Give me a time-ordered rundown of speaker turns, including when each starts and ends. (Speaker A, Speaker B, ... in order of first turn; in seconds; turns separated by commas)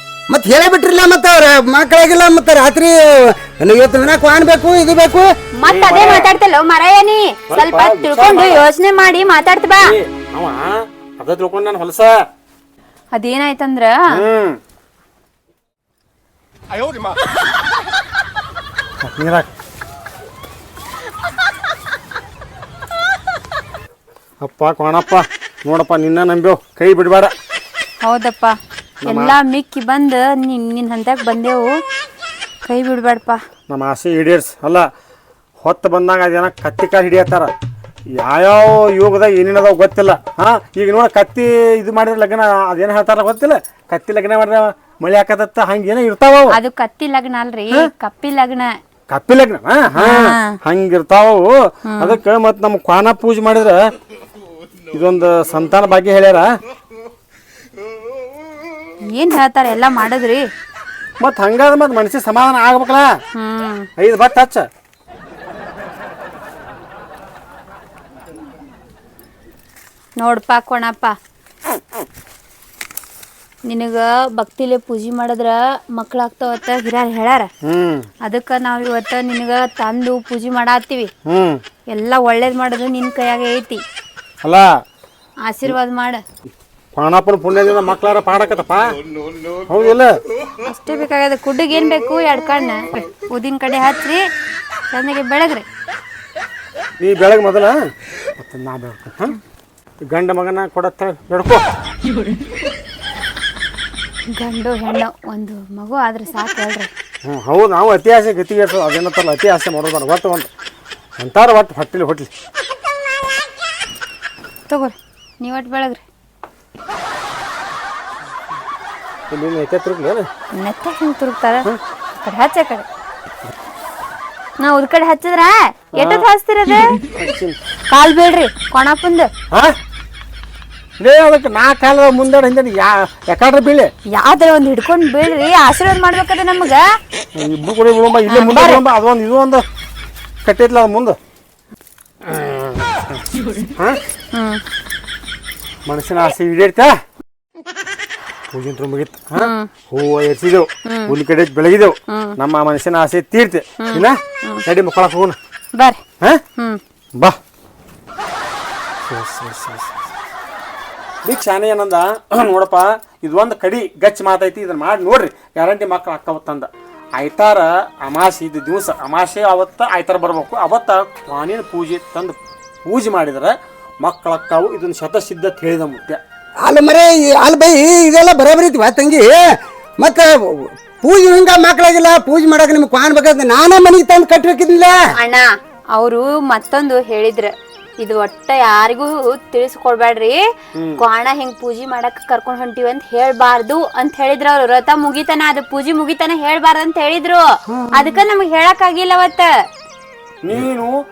Speaker A: 0.3-5.3, Speaker B: 5.6-9.9, Speaker C: 5.7-6.3, Speaker C: 7.5-8.6, Speaker C: 9.8-12.2, Speaker B: 13.1-14.2, Speaker C: 14.1-14.6, Speaker C: 19.0-19.5, Speaker C: 24.4-27.3, Speaker B: 28.0-31.7, Speaker C: 29.1-29.3, Speaker B: 32.7-33.4, Speaker C: 33.7-34.9, Speaker C: 35.6-37.5, Speaker C: 38.2-46.5, Speaker B: 46.5-48.8, Speaker C: 49.1-53.9, Speaker B: 50.0-50.6, Speaker B: 51.9-52.2, Speaker C: 54.9-56.5, Speaker B: 59.1-60.5, Speaker C: 61.2-63.1, Speaker B: 63.4-63.9, Speaker C: 64.0-64.7, Speaker B: 70.2-71.1, Speaker B: 73.7-77.5, Speaker C: 77.6-78.1, Speaker B: 78.2-81.1, Speaker C: 81.3-81.6, Speaker B: 81.9-83.8, Speaker B: 85.5-86.2, Speaker C: 87.0-89.0, Speaker C: 89.7-90.2, Speaker B: 90.6-94.2, Speaker B: 94.9-95.7, Speaker C: 97.0-97.8, Speaker C: 98.4-99.3, Speaker C: 100.1-101.6, Speaker B: 104.3-106.9, Speaker C: 107.2-110.5, Speaker C: 111.2-112.3, Speaker B: 114.7-116.0, Speaker C: 119.3-120.3, Speaker B: 120.5-121.7, Speaker B: 122.2-122.9, Speaker B: 124.6-127.0, Speaker C: 126.0-126.2, Speaker C: 127.0-127.6, Speaker B: 127.9-129.3, Speaker C: 131.0-133.9, Speaker B: 134.2-136.8, Speaker C: 137.4-139.6, Speaker B: 138.3-138.8, Speaker C: 140.4-141.2, Speaker C: 142.2-143.2, Speaker B: 144.3-144.6, Speaker C: 145.9-146.9, Speaker C: 148.5-155.4, Speaker B: 149.4-149.7, Speaker B: 150.9-151.1, Speaker B: 152.1-152.4, Speaker B: 153.8-154.6, Speaker C: 159.1-159.9, Speaker C: 161.2-176.2, Speaker A: 176.6-179.4, Speaker A: 180.0-185.0, Speaker B: 185.2-190.5, Speaker C: 190.8-191.0, Speaker B: 191.0-199.5, Speaker A: 197.7-198.1, Speaker C: 200.4-200.9